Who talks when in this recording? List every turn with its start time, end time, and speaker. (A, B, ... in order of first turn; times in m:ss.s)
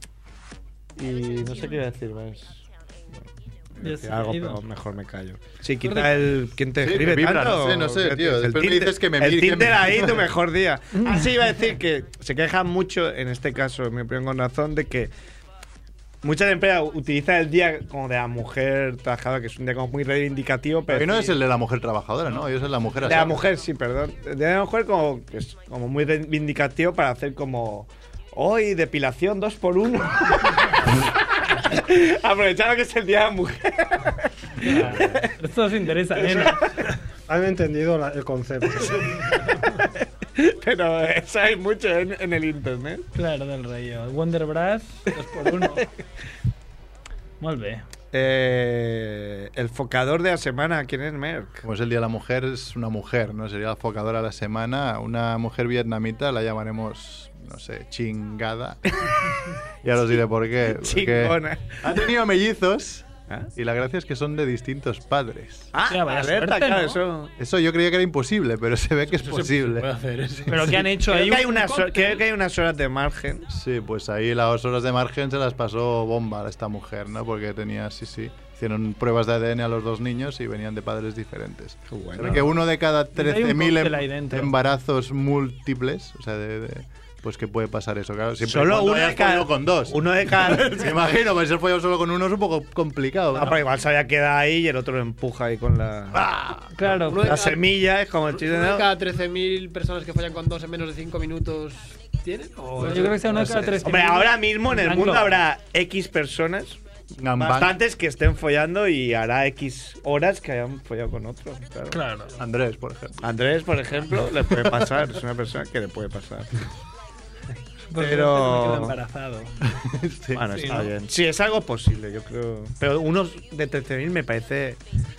0:01.0-0:15.1 A
0:03.8-0:04.6 B
0:05.8-0:06.2 B
0:06.8-0:10.3 C
0:11.0-0:11.2 B
0:16.2-0:21.4 A
0:20.9-0:23.4 C
0:23.0-0:35.3 A
0:34.6-0:36.6 B
0:36.2-0:36.7 A
0:37.3-0:39.3 D
0:38.8-0:39.4 A
0:40.4-0:43.1 A
0:43.1-0:45.8 B
0:45.5-0:45.8 A
0:47.4-0:47.8 B
0:48.1-0:51.6 A
0:51.6-0:58.9 C
0:59.8-1:05.7 C
1:00.7-1:01.9 A
1:05.7-1:07.3 A
1:05.9-1:07.0 B
1:07.4-1:10.8 C
1:09.1-1:10.6 E
1:10.5-1:12.2 B
1:10.9-1:13.4 A
1:13.5-1:33.6 C
1:21.9-1:22.5 A
1:23.1-1:24.5 B
1:28.4-1:31.0 A
1:33.3-1:36.3 A
1:36.1-1:36.9 C
1:36.7-1:37.4 B
1:37.1-1:37.7 E
1:37.1-1:38.9 A
1:38.3-1:43.6 E
1:42.8-1:45.3 B
1:42.9-1:46.8 A
1:47.2-1:47.8 C
1:47.4-1:52.0 A
1:51.9-1:52.3 E
1:51.9-1:52.2 B
1:52.4-1:53.3 C
1:53.2-1:56.5 A
1:57.9-1:59.5 B
1:58.0-1:59.0 A
1:59.6-2:00.7 C
2:00.3-2:04.8 A
2:00.5-2:00.9 B